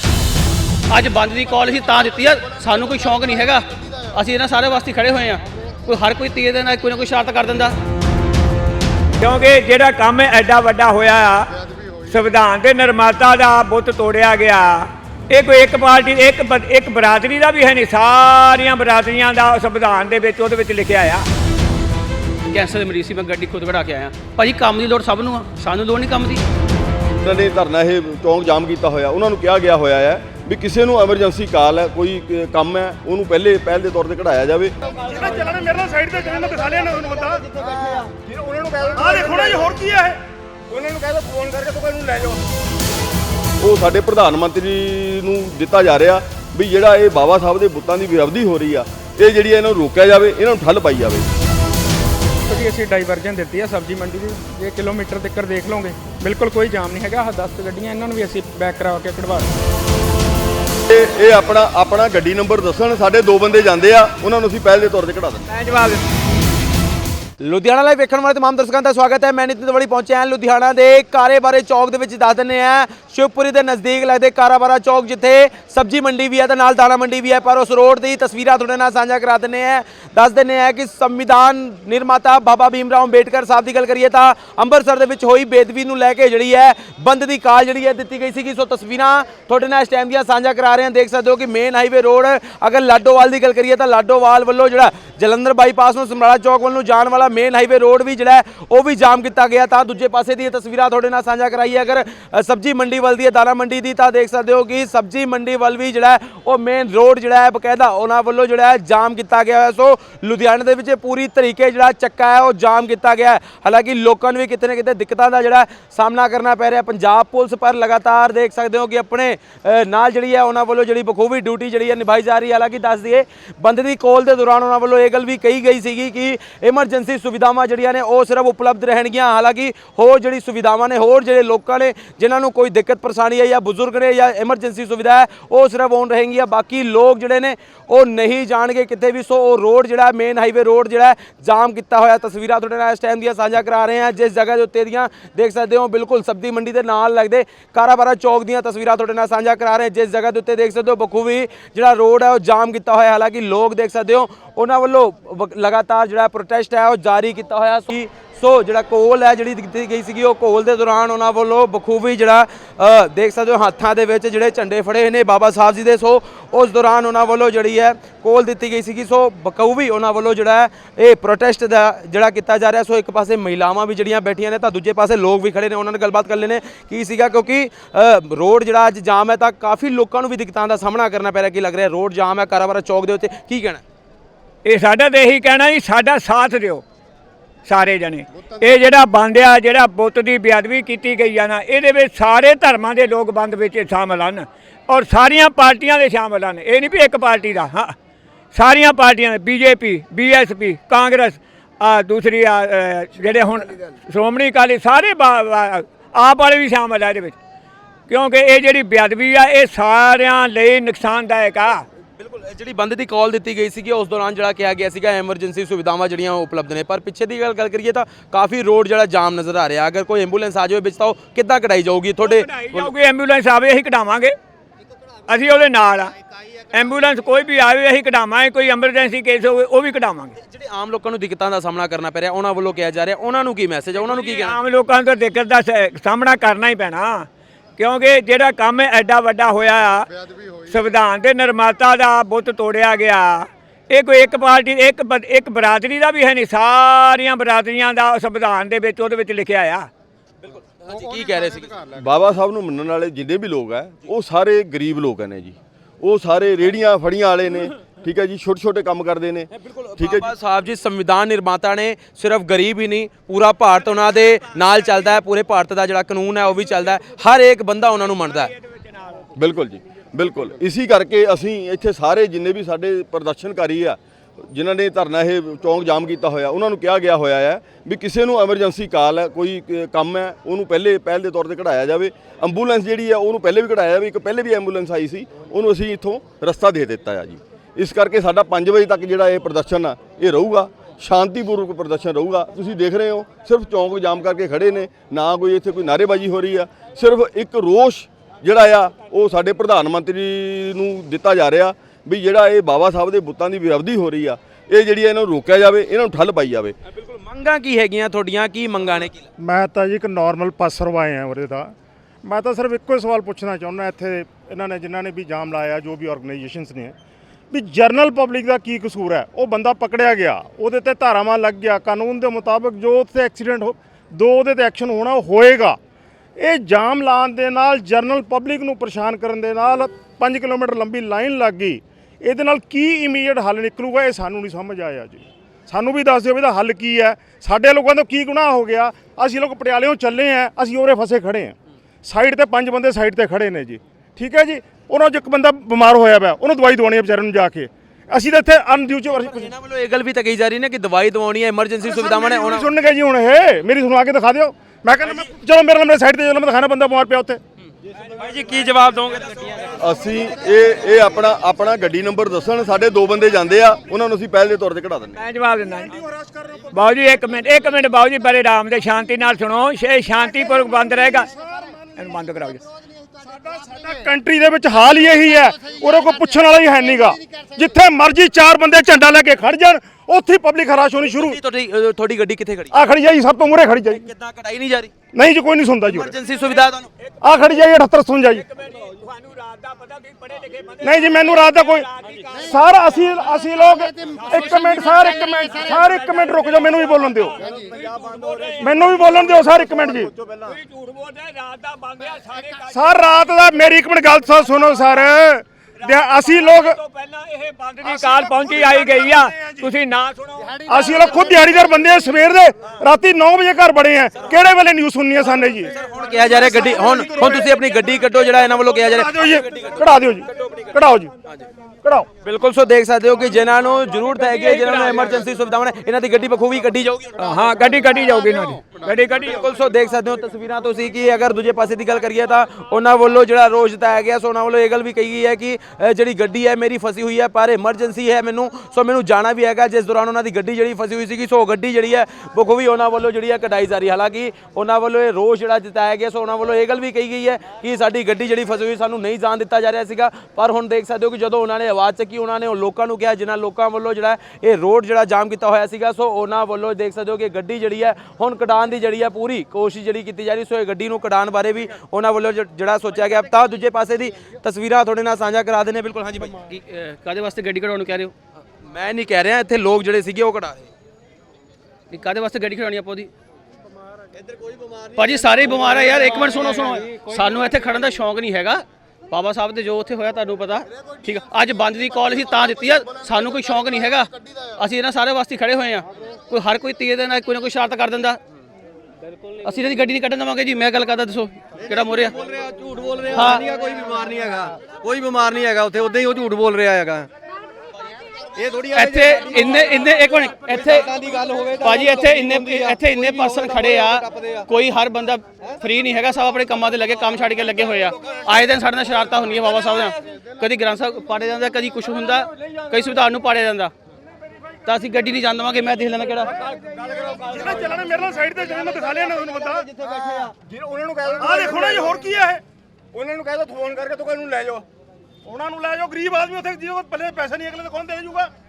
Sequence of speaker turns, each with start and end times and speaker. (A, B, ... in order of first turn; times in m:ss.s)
0:00.9-0:07.7 A
0:09.2-0:11.5 B
0:12.0-0:21.2 B
0:22.5-0:26.4 A
0:27.2-0:34.7 C
0:35.1-0:37.5 D
0:38.8-0:40.2 D
0:43.6-0:51.2 C
0:52.4-0:59.5 E
1:00.9-1:05.4 C
1:05.5-1:06.0 B
1:07.4-3:03.8 F
3:04.6-3:06.8 B
3:07.7-3:17.9 B
3:18.5-3:27.4 B
3:28.1-3:31.8 B
3:32.2-3:42.9 F
3:42.2-3:44.3 B
3:45.3-3:46.1 B
3:46.7-3:50.3 B
3:50.5-3:54.6 F
3:54.4-4:00.1 B
4:00.6-4:09.9 B
4:10.4-4:11.9 F
4:11.9-4:20.3 C
4:19.6-4:28.5 F
4:28.2-4:29.3 B
4:29.4-5:06.7 C
5:07.0-5:09.3 F
5:09.4-5:16.9 D
5:17.5-5:25.8 D
5:26.4-5:49.5 D
5:49.2-5:52.7 F
5:51.8-5:57.4 D
5:58.1-5:59.8 F
5:59.8-6:05.2 C
6:05.2-6:05.9 B
6:05.8-6:06.9 D
6:06.7-6:11.3 B
6:10.4-6:11.7 D
6:12.0-6:12.6 B
6:13.2-6:21.4 D
6:21.1-6:22.7 F
6:22.7-6:24.0 D
6:23.9-6:24.9 F
6:25.1-6:26.1 D
6:25.9-6:26.9 F
6:27.2-6:28.4 D
6:28.3-6:32.5 B
6:30.8-6:31.9 D
6:32.5-6:37.4 D
6:34.0-6:42.9 B
6:38.6-6:40.1 D
6:42.7-6:46.8 D
6:44.5-6:45.1 B
6:45.8-6:51.0 B
6:47.8-6:49.7 D
6:50.7-6:57.5 D
6:55.7-7:01.4 F
6:58.9-7:01.1 D
7:02.2-7:07.2 F
7:04.2-7:05.0 B
7:07.2-7:09.4 B
7:08.9-7:46.4 F
7:46.4-7:48.1 A
7:48.6-7:50.7 F
7:51.9-7:53.1 A
7:54.9-8:08.2 A
8:09.4-8:12.2 A
8:12.2-8:17.1 G
8:13.1-8:13.5 A
8:18.3-8:19.1 G
8:18.8-8:21.0 A
8:20.9-8:22.2 G
8:21.6-8:33.7 A
8:34.6-8:36.3 A
8:37.3-8:39.7 D
8:40.6-8:42.4 D
8:45.2-8:48.3 D